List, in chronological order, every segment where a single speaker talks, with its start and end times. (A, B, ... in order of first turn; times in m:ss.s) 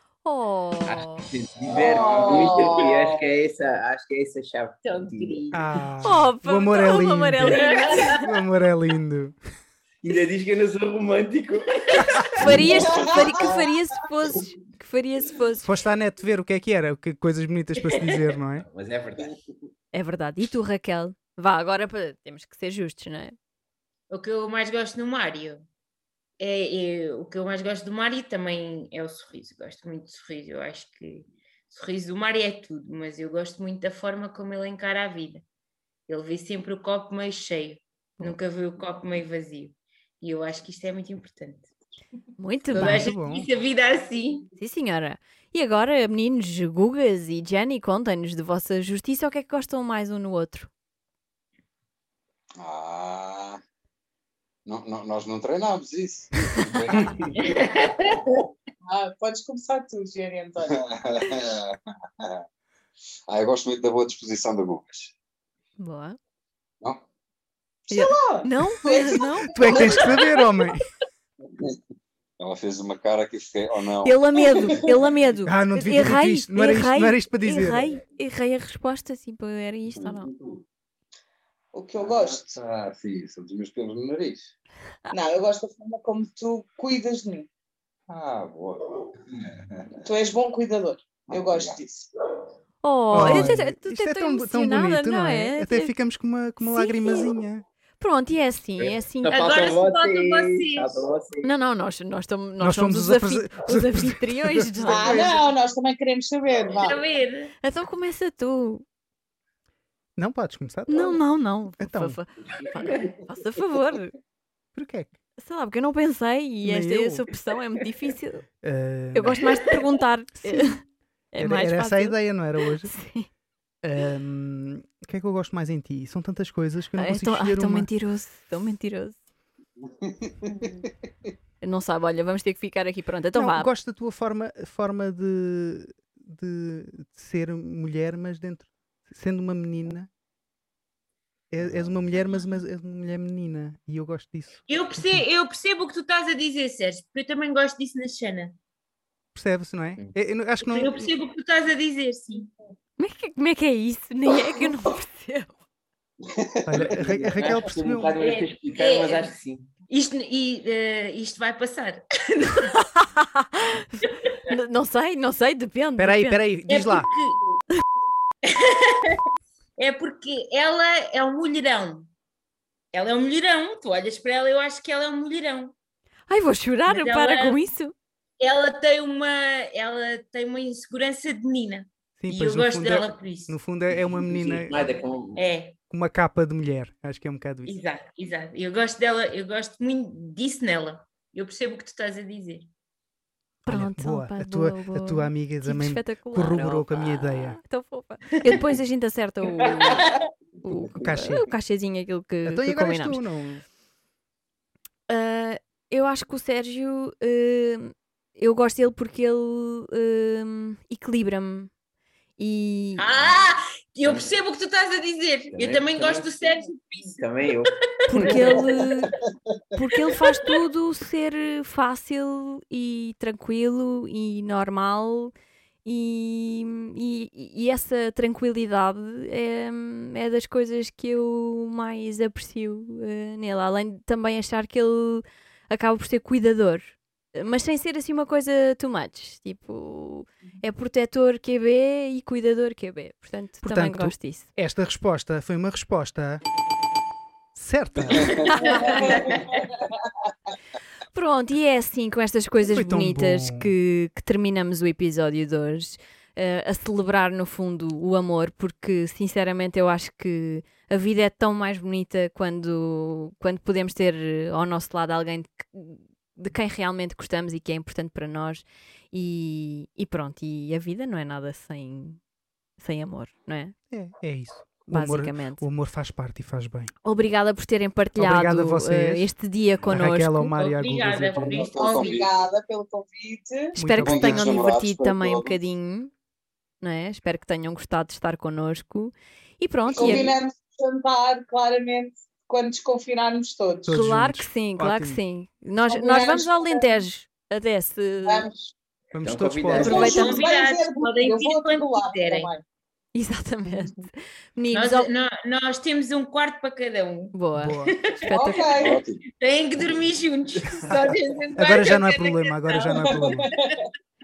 0:00.2-0:01.3 A
0:00.8-0:05.4 B
0:01.7-0:03.0 C
0:01.8-0:02.9 D
0:02.2-0:02.5 E
0:04.8-0:05.8 D
0:05.5-0:07.6 F
0:06.0-0:08.2 A
0:07.5-0:08.2 D
0:08.2-0:09.4 F
0:10.0-0:12.9 B
0:12.3-0:15.6 A
0:13.0-0:13.2 C
0:15.6-0:18.6 F
0:17.9-0:18.2 D
0:18.6-0:19.4 B
0:19.9-0:23.4 A
0:24.1-0:25.6 D
0:26.4-0:35.4 D
0:36.1-0:41.7 D
0:42.4-0:43.1 A
0:42.7-0:44.5 D
0:42.8-0:43.4 F
0:44.6-0:50.7 A
0:52.6-0:53.6 E
0:54.6-0:57.5 E
0:57.4-0:58.3 D
0:58.8-1:00.8 C
1:00.6-1:02.4 E
1:03.3-1:05.1 E
1:05.8-1:06.2 A
1:07.9-1:10.1 A
1:07.9-1:10.3 C
1:09.5-1:10.8 F
1:12.4-1:14.9 E
1:14.0-1:20.3 A
1:15.4-1:17.9 F
1:20.0-1:20.6 E
1:21.7-1:22.6 C
1:22.0-1:24.5 E
1:25.1-1:27.5 C
1:28.1-1:30.0 E
1:30.0-1:32.1 C
1:31.3-1:31.8 E
1:32.8-1:35.9 A
1:33.1-1:37.6 F
1:36.6-1:37.3 A
1:38.0-1:39.5 A
1:38.8-1:41.5 B
1:39.3-1:41.0 D
1:41.4-1:45.2 A
1:42.6-1:45.4 F
1:44.9-1:47.0 C
1:46.7-1:47.5 D
1:47.6-1:48.8 A
1:50.2-1:51.2 F
1:50.9-1:54.1 A
1:51.8-1:52.2 F
1:52.6-1:53.1 B
1:54.7-1:55.1 F
1:55.4-1:58.4 A
1:56.6-1:57.2 F
1:58.6-1:59.5 F
1:59.1-2:00.8 A
2:00.4-2:00.8 F
2:01.3-2:03.3 A
2:01.4-2:02.9 F
2:03.8-2:07.9 F
2:07.0-2:09.2 A
2:09.8-2:10.6 E
2:11.6-2:13.7 A
2:13.3-2:20.1 F
2:21.5-2:25.2 F
2:24.7-2:28.6 D
2:29.3-2:31.1 F
2:30.6-2:32.5 D
2:33.0-2:35.5 A
2:36.3-2:37.4 E
2:36.6-2:38.1 F
2:37.3-2:39.7 B
2:38.2-2:39.3 D
2:39.9-2:42.7 D
2:42.7-2:46.4 A
2:46.0-2:47.1 F
2:46.7-2:47.5 D
2:48.4-2:49.2 D
2:49.8-2:52.1 D
2:52.9-2:55.7 D
2:56.3-2:57.9 A
2:56.9-2:57.6 D
2:58.4-3:03.6 D
3:02.2-3:04.8 F
3:03.9-3:05.4 B
3:05.3-3:05.8 D
3:05.9-3:07.7 F
3:07.6-3:12.7 D
3:13.6-3:17.6 F
3:13.6-3:20.0 A
3:19.8-3:20.3 D
3:20.6-3:23.2 A
3:21.0-3:21.5 F
3:22.4-3:23.6 F
3:25.1-3:31.7 A
3:32.4-3:33.0 A
3:33.0-3:38.7 D
3:34.0-3:34.3 B
3:35.5-3:36.3 B
3:37.0-3:38.6 B
3:38.1-3:39.1 A
3:39.7-3:45.3 A
3:40.2-3:40.5 D
3:45.8-4:04.5 A
4:03.6-4:06.4 F
4:07.5-4:09.0 F
4:08.1-4:08.5 E
4:08.4-4:09.0 A
4:08.8-4:09.6 D
4:11.1-4:32.2 A
4:12.7-4:13.7 F
4:32.8-4:33.7 A
4:33.9-4:36.9 F
4:34.9-4:35.6 A
4:37.0-4:40.5 A
4:38.2-4:39.3 F
4:39.8-4:41.6 F
4:40.5-4:42.2 D
4:41.3-4:42.3 E
4:41.8-4:43.8 C
4:43.8-4:46.1 A
4:43.8-4:44.4 F
4:44.0-4:45.6 E
4:46.8-4:50.3 A
4:49.9-4:50.3 E
4:50.0-4:53.9 C
4:53.8-4:55.2 F
4:53.9-4:58.5 A
4:55.9-4:57.0 C
4:58.2-4:58.7 C
4:59.1-5:00.2 F
4:59.2-5:00.3 B
4:59.7-5:02.6 C
4:59.8-5:02.5 D
5:03.1-5:05.1 A
5:04.7-5:07.3 D
5:07.3-5:08.6 A
5:07.5-5:07.9 F
5:07.9-5:08.4 D
5:08.3-5:09.0 C
5:08.7-5:09.2 E
5:09.4-5:13.7 D
5:11.6-5:13.5 F